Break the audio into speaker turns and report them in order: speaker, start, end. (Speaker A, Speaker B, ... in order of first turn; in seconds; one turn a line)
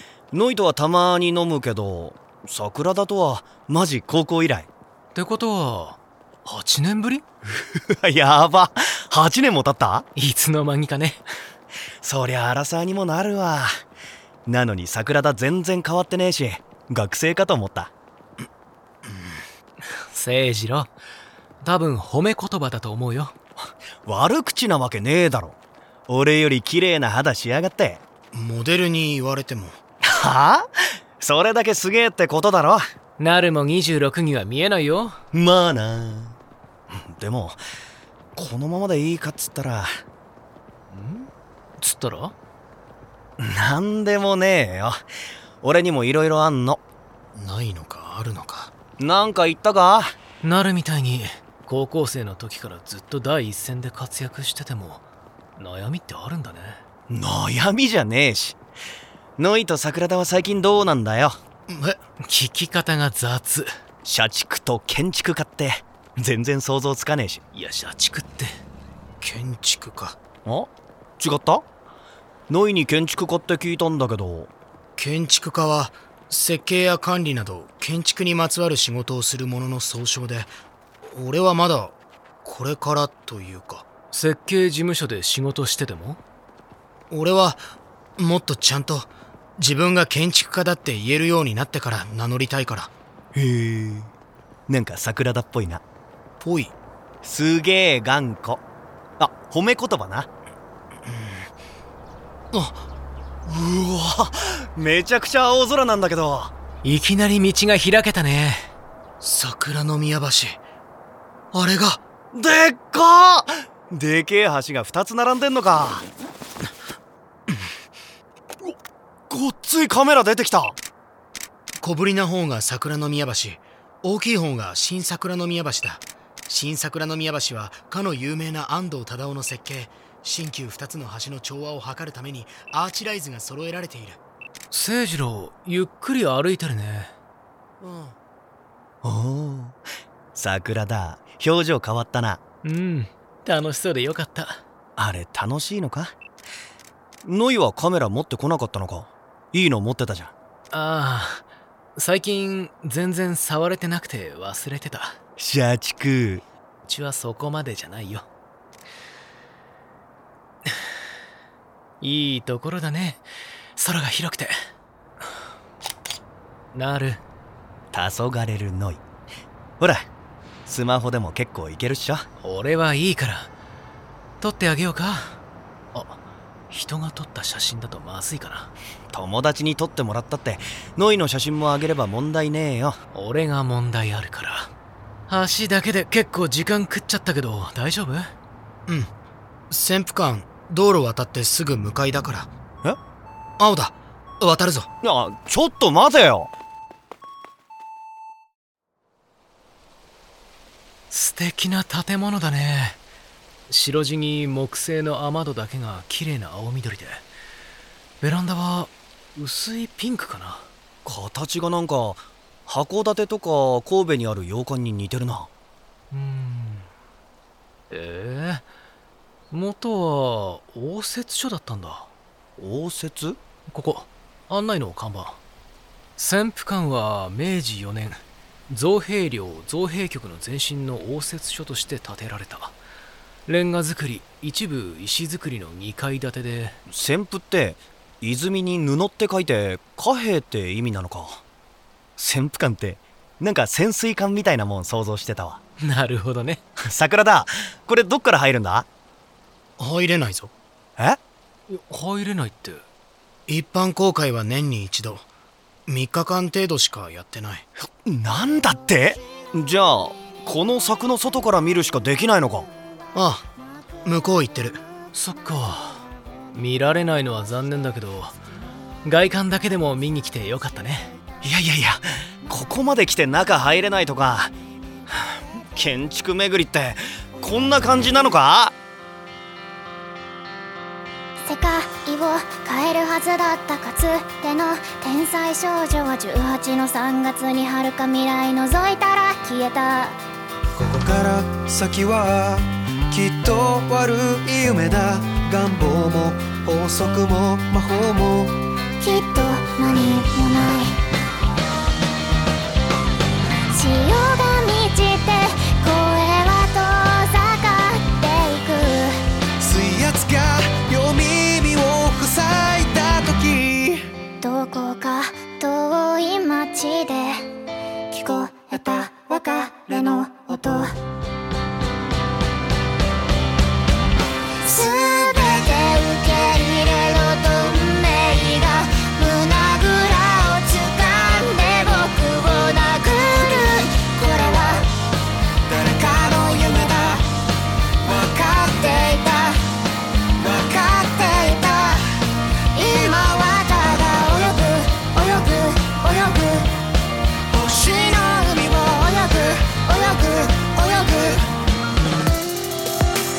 Speaker A: 0.3-4.7
Speaker B: 5.1-7.2
Speaker A: 7.6-10.1
Speaker B: 10.2-11.2
Speaker A: 12.0-13.7
Speaker A: 14.4-17.9
Speaker C: 19.1-19.4
Speaker B: 19.9-20.9
Speaker B: 21.6-23.3
Speaker A: 24.1-25.6
Speaker A: 26.1-28.0
Speaker C: 28.3-29.8
Speaker A: 30.1-30.6
Speaker A: 31.2-32.8
Speaker B: 33.2-35.2
Speaker A: 35.3-36.4
Speaker A: 36.9-37.6
Speaker A: 38.4-39.9
Speaker B: 40.9-41.3
Speaker B: 41.8-42.3
Speaker A: 43.4-45.0
Speaker A: 45.6-46.8
Speaker C: 47.3-48.7
Speaker A: 49.0-50.1
Speaker B: 50.4-55.0
Speaker B: 55.6-56.8
Speaker A: 57.1-58.6
Speaker A: 59.4-61.4
Speaker C: 61.7-62.0
Speaker B: 62.2-63.7
Speaker A: 64.0-67.4
Speaker B: 67.5-68.5
Speaker C: 69.2-70.2
Speaker A: 70.4-71.6
Speaker A: 72.5-74.5
Speaker C: 75.0-80.5
Speaker C: 81.0-83.9
Speaker B: 84.1-86.2
Speaker C: 87.1-87.6
Speaker C: 88.2-92.9
Speaker A: 93.3-94.1
Speaker A: 94.7-95.8
Speaker C: 96.4-96.8
Speaker A: 97.2-98.6
Speaker A: 99.2-100.3
Speaker C: 101.1-101.5
Speaker C: 102.5-102.8
Speaker A: 103.5-106.5
Speaker B: 106.8-108.7
Speaker C: 109.2-110.6
Speaker C: 111.5-112.0
Speaker A: 112.3-116.1
Speaker A: 119.3-120.8
Speaker C: 121.8-134.2
Speaker B: 134.7-137.1
Speaker C: 137.8-138.2
Speaker A: 139.0-139.8
Speaker A: 140.3-142.4
Speaker B: 142.6-144.6
Speaker A: 145.0-146.1
Speaker A: 147.2-150.3
Speaker B: 150.7-151.4
Speaker B: 152.0-155.2
Speaker A: 155.4-156.4
Speaker B: 156.9-158.3
Speaker B: 162.0-163.2
Speaker B: 163.8-164.5
Speaker B: 166.7-167.2
Speaker A: 167.9-169.0
Speaker A: 169.8-170.1
Speaker A: 170.7-172.2
Speaker B: 172.4-173.5
Speaker B: 174.4-175.4
Speaker B: 175.9-176.2
Speaker B: 176.7-178.7
Speaker A: 179.1-183.0
Speaker B: 183.1-184.7
Speaker B: 185.3-188.3
Speaker C: 188.9-189.1
Speaker C: 189.7-192.5
Speaker C: 193.6-194.9
Speaker A: 195.0-196.5
Speaker B: 201.1-203.0
Speaker B: 203.7-207.2
Speaker B: 208.2-210.7
Speaker A: 211.0-215.5
Speaker B: 216.1-216.9
Speaker B: 217.9-218.6
Speaker B: 219.5-222.1
Speaker A: 222.6-223.4
Speaker B: 223.7-225.4
Speaker B: 226.2-232.8
Speaker B: 233.5-236.8
Speaker A: 236.9-241.4
Speaker A: 242.2-245.6
Speaker B: 245.8-246.6
Speaker A: 246.8-248.9
Speaker C: 249.8-250.5
Speaker B: 251.7-252.8
Speaker C: 253.5-255.2
Speaker C: 255.9-257.6
Speaker A: 257.9-262.7
Speaker C: 263.1-263.5
Speaker C: 264.0-264.8
Speaker B: 265.1-268.3
Speaker B: 269.0-271.1
Speaker A: 271.4-274.5
Speaker A: 275.7-278.7
Speaker D: 281.4-290.2
Speaker E: 290.8-298.5
Speaker D: 299.0-301.0
Speaker D: 303.7-309.2
Speaker E: 309.6-314.1
Speaker D: 314.4-317.4
Speaker D: 318.1-320.9
Speaker D: 324.6-334.9
Speaker D: 335.7-337.2
Speaker D: 338.0-339.6
Speaker D: 340.4-342.0
Speaker D: 342.7-346.7
Speaker D: 347.6-351.4